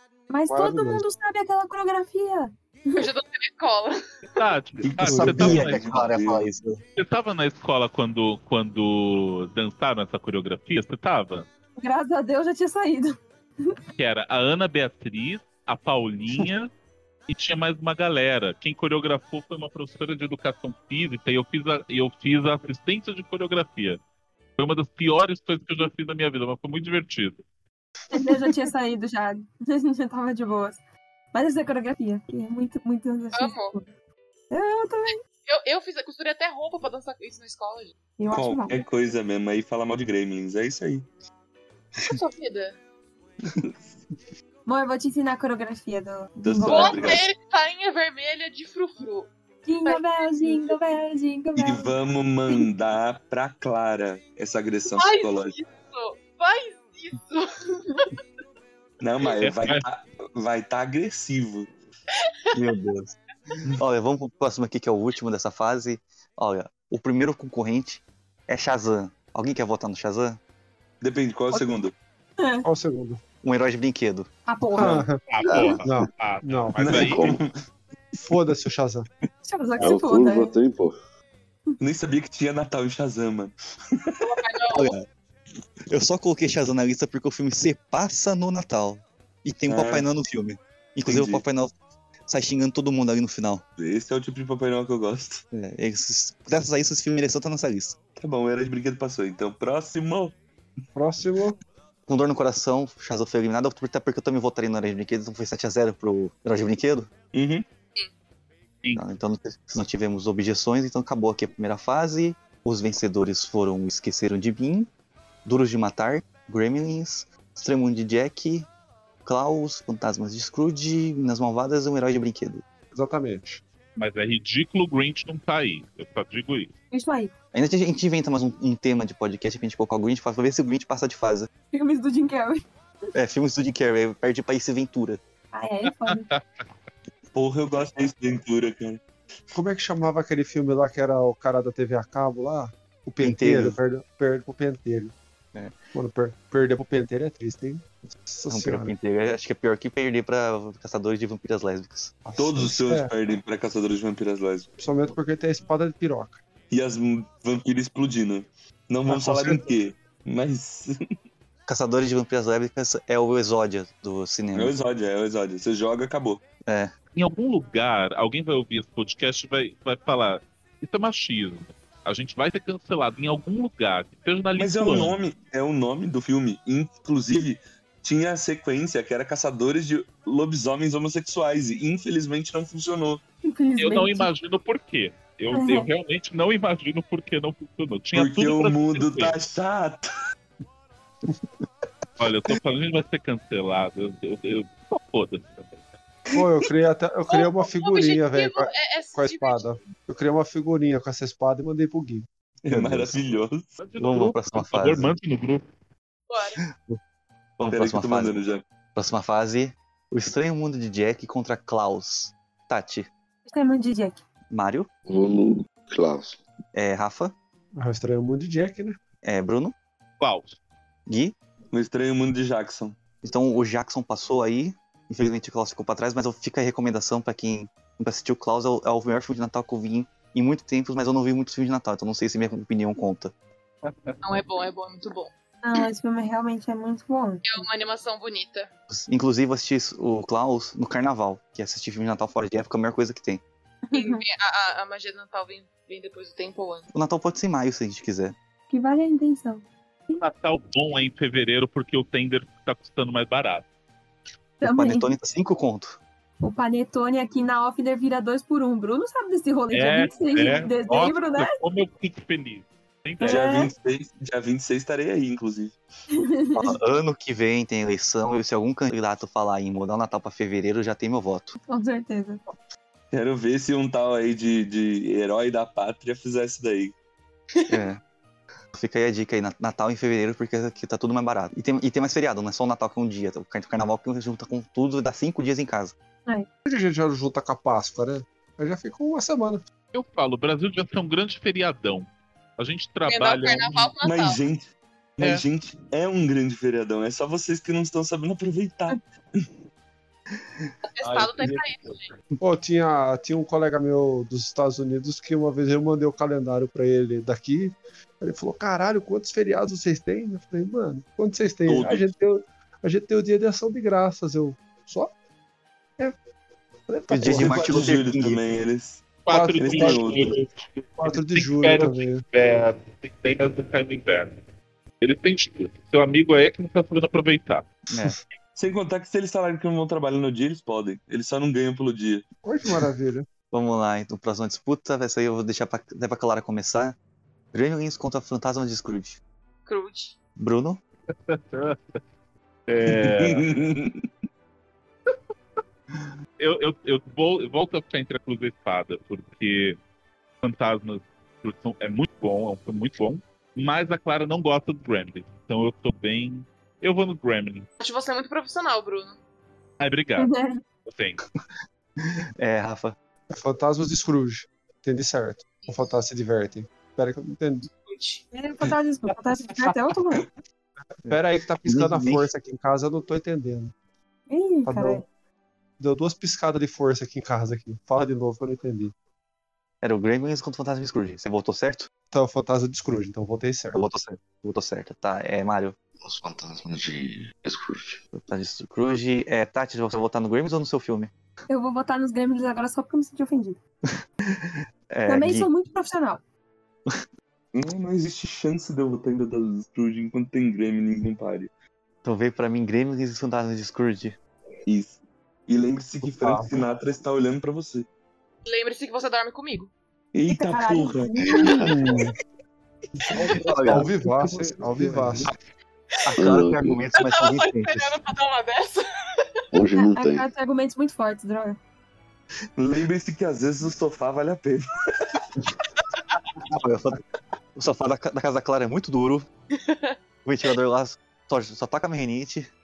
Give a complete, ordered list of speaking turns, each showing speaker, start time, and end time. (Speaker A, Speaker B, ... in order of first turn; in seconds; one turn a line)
Speaker A: 0.3-3.0
Speaker B: 0.5-1.0
Speaker C: 3.0-4.0
Speaker D: 4.3-5.9
Speaker E: 4.8-6.5
Speaker B: 5.1-5.4
Speaker F: 5.1-6.8
Speaker D: 7.0-11.5
Speaker A: 11.8-13.8
Speaker D: 14.0-16.7
Speaker D: 17.3-24.0
Speaker D: 24.6-27.4
Speaker A: 28.1-30.8
Speaker B: 28.1-28.5
Speaker A: 31.3-33.9
Speaker C: 33.3-33.7
Speaker A: 34.5-35.2
Speaker C: 35.4-37.9
Speaker A: 38.2-38.8
Speaker E: 38.3-41.1
Speaker C: 42.0-42.8
Speaker E: 43.5-43.9
Speaker A: 44.6-47.2
Speaker E: 46.4-47.3
Speaker C: 46.6-49.3
Speaker A: 49.6-51.9
Speaker C: 49.9-50.8
Speaker E: 51.5-55.5
Speaker C: 54.9-58.2
Speaker E: 59.0-61.7
Speaker D: 59.4-59.8
Speaker F: 62.5-63.1
Speaker F: 63.7-70.4
Speaker E: 71.0-71.9
Speaker A: 72.4-72.6
Speaker B: 72.6-73.2
Speaker F: 73.4-74.3
Speaker A: 74.5-75.0
Speaker B: 74.7-75.2
Speaker D: 75.3-77.4
Speaker G: 75.5-75.8
Speaker B: 75.8-76.8
Speaker E: 76.8-77.6
Speaker G: 77.0-77.4
Speaker B: 78.2-79.1
Speaker A: 79.4-80.5
Speaker G: 79.8-81.0
Speaker E: 81.8-84.2
Speaker C: 84.2-84.9
Speaker F: 84.7-85.0
Speaker F: 85.9-91.7
Speaker E: 89.7-90.0
Speaker E: 91.0-91.4
Speaker F: 92.3-93.6
Speaker E: 93.8-95.4
Speaker F: 95.5-98.0
Speaker E: 98.2-100.4
Speaker B: 100.9-101.6
Speaker F: 102.1-107.1
Speaker E: 107.3-107.6
Speaker F: 108.9-114.9
Speaker F: 115.4-118.7
Speaker F: 119.2-122.6
Speaker B: 122.9-123.6
Speaker D: 124.0-126.7
Speaker A: 126.9-127.3
Speaker F: 127.5-131.5
Speaker A: 131.7-132.6
Speaker F: 133.1-135.2
Speaker A: 135.5-136.3
Speaker D: 136.1-136.4
Speaker E: 137.3-139.0
Speaker B: 139.5-145.1
Speaker F: 143.2-143.8
Speaker B: 145.9-148.9
Speaker F: 148.5-152.2
Speaker B: 152.2-153.1
Speaker E: 152.4-154.7
Speaker B: 154.8-156.4
Speaker E: 156.7-161.0
Speaker B: 159.2-159.6
Speaker F: 161.7-164.7
Speaker E: 164.5-166.4
Speaker F: 166.7-166.9
Speaker D: 167.1-175.2
Speaker E: 174.6-183.2
Speaker A: 183.4-184.3
Speaker D: 183.8-189.3
Speaker A: 185.5-185.9
Speaker E: 188.1-190.1
Speaker D: 192.2-195.9
Speaker B: 196.3-202.3
Speaker C: 197.3-199.8
Speaker E: 202.6-203.7
Speaker F: 202.7-203.2
Speaker D: 203.8-205.6
Speaker F: 204.0-205.1
Speaker C: 206.3-206.6
Speaker F: 206.7-207.0
Speaker F: 207.6-208.3
Speaker E: 207.7-208.6
Speaker F: 208.9-213.1
Speaker A: 213.5-214.2
Speaker F: 214.5-214.9
Speaker G: 215.1-216.4
Speaker F: 216.7-217.3
Speaker B: 217.8-219.0
Speaker F: 219.2-219.7
Speaker D: 220.2-220.6
Speaker F: 221.1-221.3
Speaker E: 221.7-223.0
Speaker F: 223.2-233.3
Speaker D: 233.8-234.2
Speaker C: 234.2-235.3
Speaker A: 235.6-237.7
Speaker C: 237.4-238.7
Speaker F: 238.9-243.4
Speaker A: 243.9-244.2
Speaker C: 243.9-246.9
Speaker F: 246.9-248.3
Speaker A: 248.7-250.2
Speaker D: 250.2-253.6
Speaker A: 254.6-255.1
Speaker F: 254.6-256.0
Speaker A: 256.4-261.5
Speaker D: 259.7-263.5
Speaker A: 263.2-263.7
Speaker E: 263.2-265.8
Speaker A: 266.1-266.8
Speaker F: 266.5-271.5
Speaker A: 271.7-272.4
Speaker E: 273.1-276.9
Speaker F: 277.7-278.0
Speaker F: 278.7-285.9
Speaker B: 286.6-289.6
Speaker D: 289.9-293.9
Speaker C: 293.1-294.4
Speaker E: 294.0-299.4
Speaker C: 300.8-302.1
Speaker D: 301.0-301.9
Speaker B: 302.4-315.1
Speaker E: 311.6-312.1
Speaker B: 316.9-317.9
Speaker F: 317.1-318.4
Speaker E: 317.2-320.4
Speaker D: 319.2-324.4
Speaker B: 319.3-320.1
Speaker B: 321.0-322.2
Speaker D: 325.0-327.7
Speaker F: 327.9-328.1
Speaker E: 328.5-332.2
Speaker B: 332.4-333.2
Speaker F: 333.5-336.9
Speaker F: 337.5-339.2
Speaker C: 339.7-340.1
Speaker F: 340.4-340.8
Speaker D: 341.1-342.0
Speaker D: 342.7-343.5
Speaker E: 342.9-344.1
Speaker D: 346.4-349.8
Speaker D: 350.4-357.7
Speaker C: 357.8-359.2
Speaker D: 359.8-360.3
Speaker A: 360.2-360.6
Speaker D: 360.8-361.2
Speaker F: 362.0-362.9
Speaker B: 363.3-367.7
Speaker C: 365.6-365.9
Speaker C: 367.7-368.2
Speaker A: 368.3-370.2
Speaker F: 371.0-372.3
Speaker B: 371.1-373.7
Speaker A: 374.3-375.0
Speaker B: 374.6-375.0
Speaker B: 375.8-378.9
Speaker F: 379.8-381.9
Speaker B: 382.1-383.8
Speaker F: 383.7-385.8
Speaker G: 386.0-388.0
Speaker F: 388.1-391.1
Speaker A: 391.5-393.6
Speaker F: 394.2-395.5
Speaker A: 395.1-396.2
Speaker E: 397.5-401.5
Speaker F: 402.0-404.1
Speaker E: 404.6-407.9
Speaker B: 406.1-406.5
Speaker C: 408.4-409.7
Speaker E: 410.1-411.8
Speaker A: 410.3-411.7
Speaker G: 411.2-411.9
Speaker B: 411.7-412.1
Speaker B: 413.0-415.3
Speaker F: 413.1-415.3
Speaker F: 416.1-417.9
Speaker G: 416.2-416.8
Speaker C: 416.9-419.4
Speaker G: 419.5-420.3
Speaker A: 419.9-421.6
Speaker E: 422.6-425.2
Speaker F: 426.5-427.0
Speaker F: 427.5-429.3
Speaker C: 429.5-430.0
Speaker F: 430.2-432.5